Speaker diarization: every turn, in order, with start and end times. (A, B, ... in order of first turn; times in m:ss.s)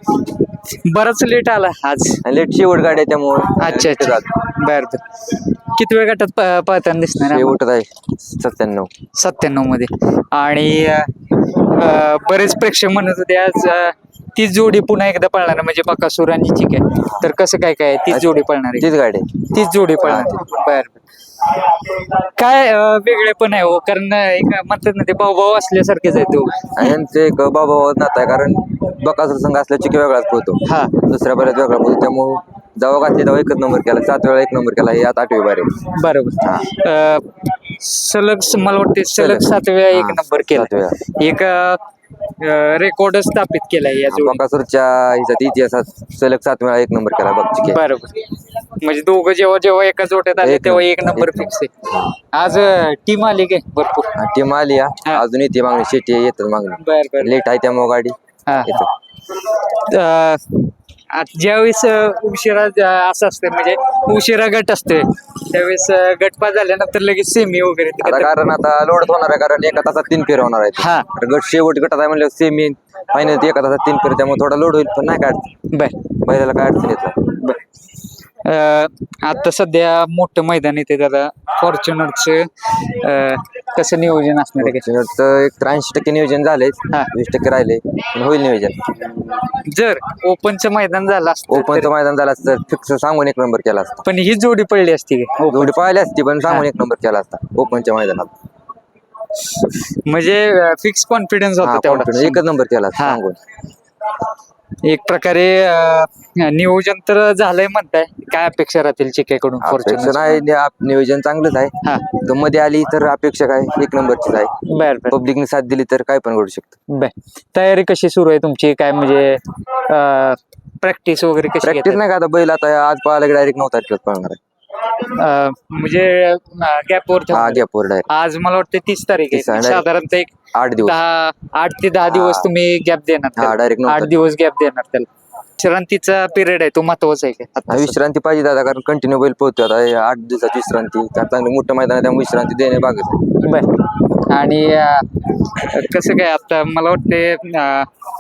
0:00.2-0:02.2 A
0:02.2-0:04.3 B
0:03.6-0:07.5 A
0:07.2-0:08.9 B
0:09.1-0:18.9 A
0:17.0-0:17.3 B
0:18.1-0:19.4 B
0:19.4-0:26.9 A
0:20.0-0:20.6 B
0:26.8-0:35.8 B
0:30.6-0:31.0 A
0:35.9-0:41.8 A
0:36.4-0:36.8 B
0:39.2-0:41.0 B
0:42.4-0:44.4 A
0:44.1-0:47.8 B
0:47.6-0:54.1 A
0:50.4-0:52.1 B
0:54.2-0:58.9 B
0:56.8-0:57.4 A
0:58.4-1:08.3 A
1:08.0-1:15.5 B
1:10.8-1:11.1 A
1:15.7-1:16.1 A
1:16.2-1:17.3 B
1:17.3-1:17.6 A
1:18.4-1:24.8 A
1:24.6-1:29.0 B
1:29.4-1:31.9 A
1:31.5-1:34.0 B
1:34.0-1:35.7 A
1:35.5-1:38.3 B
1:39.4-1:42.4 A
1:41.6-1:43.4 B
1:43.0-1:43.2 A
1:44.8-1:50.4 A
1:49.6-1:54.5 B
1:51.8-1:52.1 A
1:54.7-1:55.2 A
1:55.1-1:56.8 B
1:56.9-2:02.0 A
2:01.6-2:04.4 B
2:04.8-2:18.0 A
2:07.3-2:08.0 B
2:09.3-2:09.8 B
2:10.5-2:11.0 B
2:12.1-2:12.5 B
2:13.4-2:14.2 B
2:17.7-2:23.3 B
2:23.4-2:27.9 A